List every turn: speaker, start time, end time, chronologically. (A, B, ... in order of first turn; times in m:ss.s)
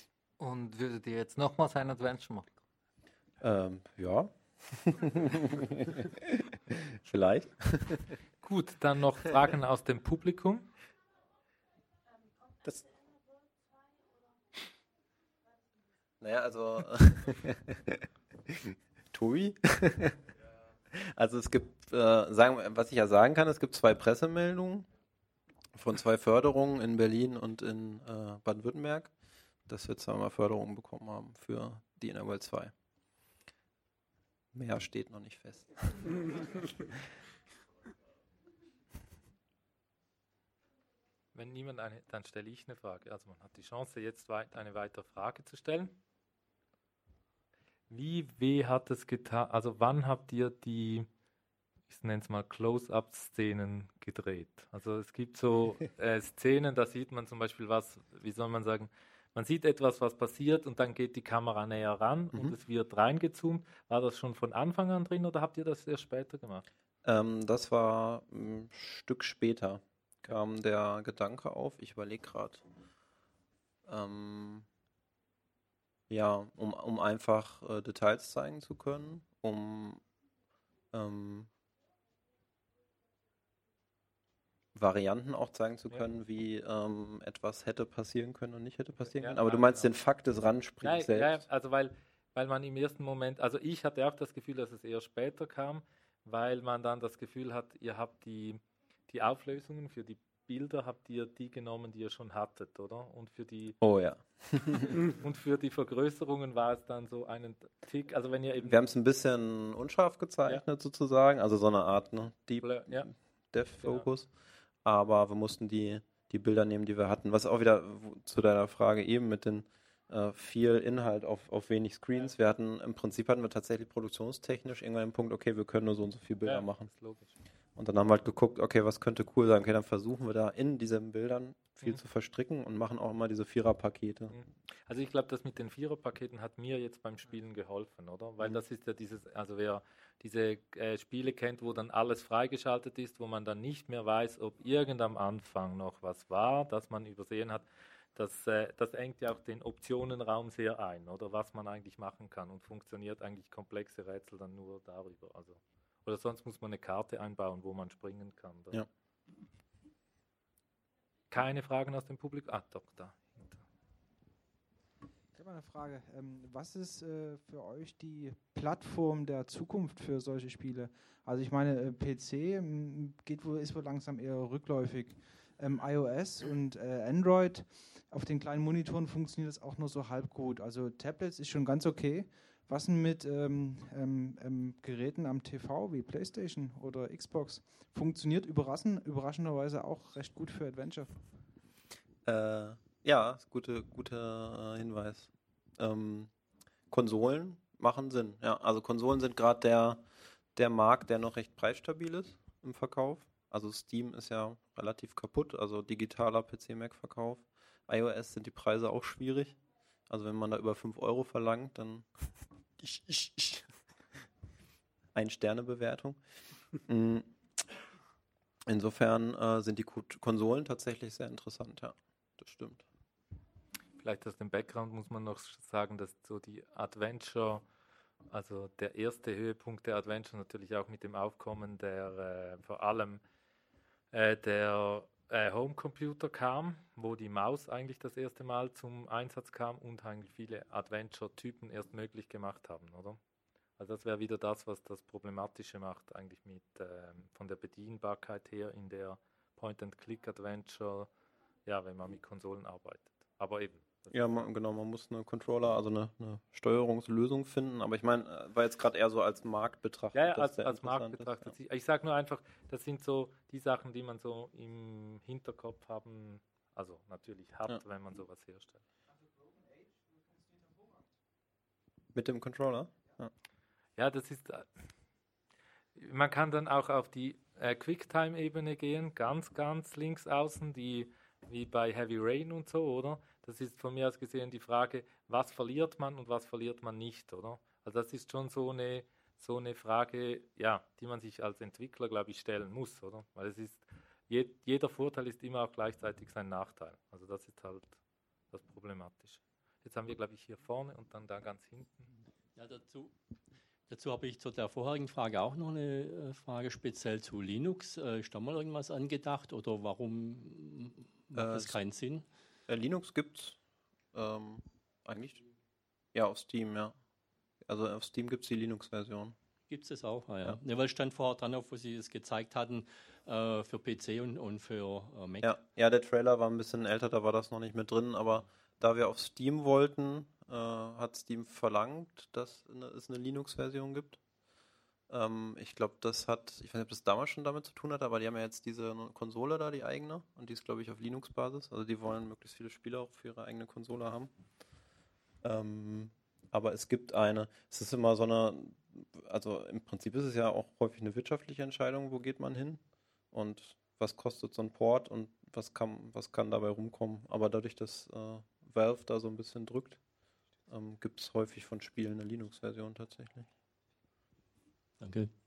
0:00.4-0:02.6 A
0:03.4-0:08.1 B
0:08.4-0:10.7 C
0:12.6-0:12.9 B
0:16.2-0:20.2 B
0:20.9-0:24.9 B
0:25.7-0:29.1 B
0:29.7-0:32.7 B
0:34.5-0:36.9 B
0:41.3-0:46.0 C
0:47.9-0:51.1 C
0:51.9-1:06.6 C
1:07.0-1:12.6 B
1:13.8-1:14.7 B
1:16.1-1:20.0 B
1:20.9-1:21.5 B
1:24.7-1:31.4 B
1:29.0-1:29.9 C
1:30.8-1:43.8 C
1:43.8-1:45.0 B
1:45.0-1:48.9 C
1:48.6-1:54.3 B
1:52.6-1:53.1 C
1:53.8-1:54.1 C
1:54.8-2:06.9 B
2:06.4-2:07.3 C
2:07.8-2:14.4 B
2:14.3-2:38.8 C
2:41.3-2:43.6 C
2:45.3-3:11.2 D
3:12.2-3:16.3 B
3:16.9-3:20.0 B
3:20.5-3:29.6 B
3:30.1-3:33.7 B
3:35.1-3:36.2 B
3:36.8-3:37.3 B
3:38.7-3:42.8 B
3:44.0-3:47.6 C
3:48.3-3:53.2 C
3:54.1-4:03.2 C
4:03.8-4:11.1 C
4:11.6-4:14.1 C
4:14.1-4:21.5 B
4:20.1-4:28.8 C
4:32.1-4:33.3 B
4:34.0-4:34.7 C
4:36.0-4:58.0 C
4:58.5-5:02.1 C
5:02.5-5:03.1 E
5:03.9-5:12.2 E
5:11.3-5:11.8 B
5:12.7-5:13.6 B
5:14.1-5:15.4 B
5:16.1-5:17.0 B
5:17.6-5:19.4 B
5:19.7-5:25.6 E
5:25.4-5:34.2 B
5:35.1-5:44.3 B
5:45.4-6:00.0 B
6:00.7-6:03.5 B
6:05.0-6:05.3 E